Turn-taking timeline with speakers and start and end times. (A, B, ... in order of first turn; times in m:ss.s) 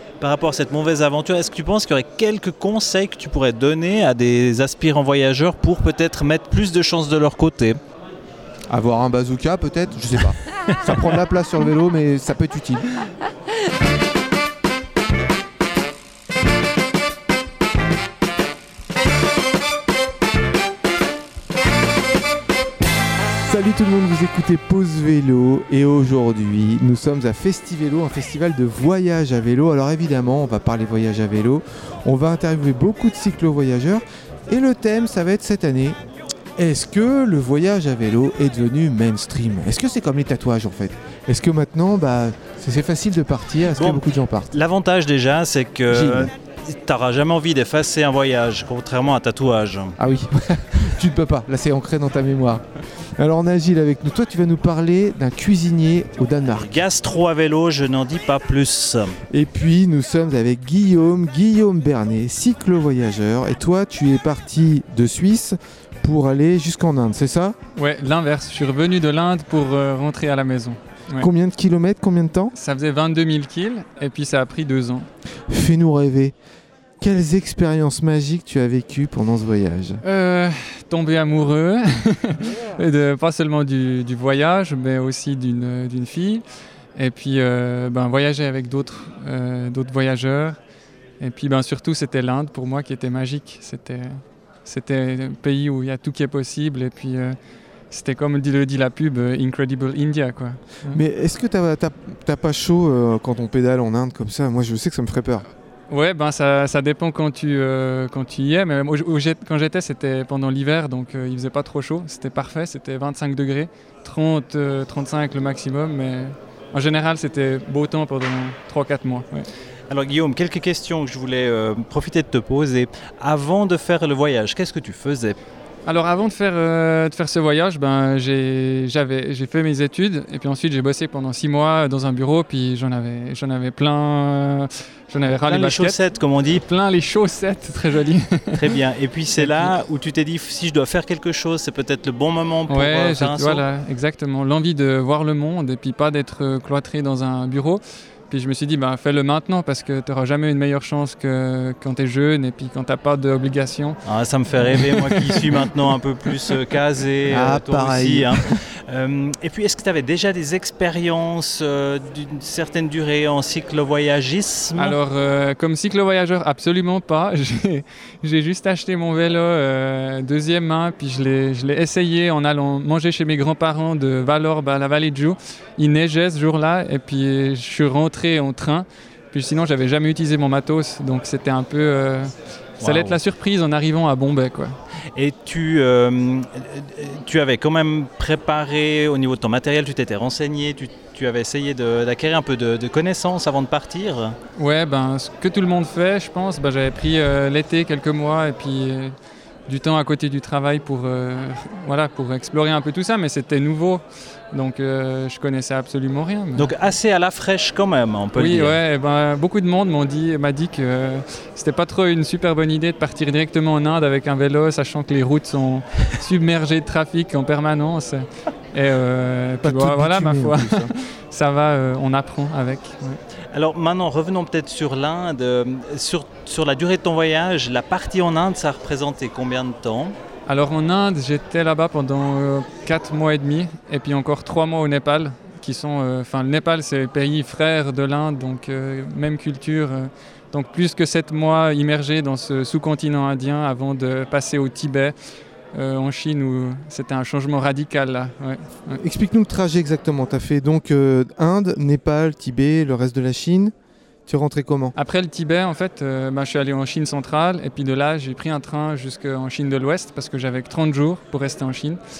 0:00.2-0:07.8 A
0:08.7-0:12.9 B
0:23.4-0:36.0 B
0:36.6-0:44.5 B
0:43.7-0:50.0 A
0:45.9-0:46.3 B
0:50.0-0:56.7 B
0:56.6-0:59.2 A
0:59.3-1:07.6 B
1:07.8-1:11.3 C
1:11.2-1:12.5 B
1:12.6-1:15.1 C
1:15.5-1:16.3 B
1:17.0-1:20.0 B
1:20.0-1:26.4 C
1:27.0-1:30.6 C
1:31.2-1:37.4 C
1:37.9-1:41.0 C
1:40.9-1:45.4 B
1:45.9-1:59.5 C
1:59.9-2:05.4 A
2:05.8-2:16.0 C
2:15.4-2:16.6 A
2:16.5-2:18.6 C
2:18.5-2:23.6 A
2:19.4-2:19.7 C
2:22.7-2:34.0 C
2:34.0-2:45.0 A
2:34.6-2:35.4 C
2:37.3-2:38.4 B
2:44.7-3:04.8 C
3:02.8-3:03.2 A
3:05.1-3:14.4 A
3:14.6-3:19.1 C
3:19.7-3:26.7 C
3:26.6-3:28.8 A
3:28.4-3:43.2 C
3:39.6-3:40.9 B
3:43.5-3:50.1 A
3:50.5-4:05.1 C
4:05.7-4:09.0 C
4:09.0-4:13.7 B
4:14.3-4:14.9 B
4:14.9-4:22.0 C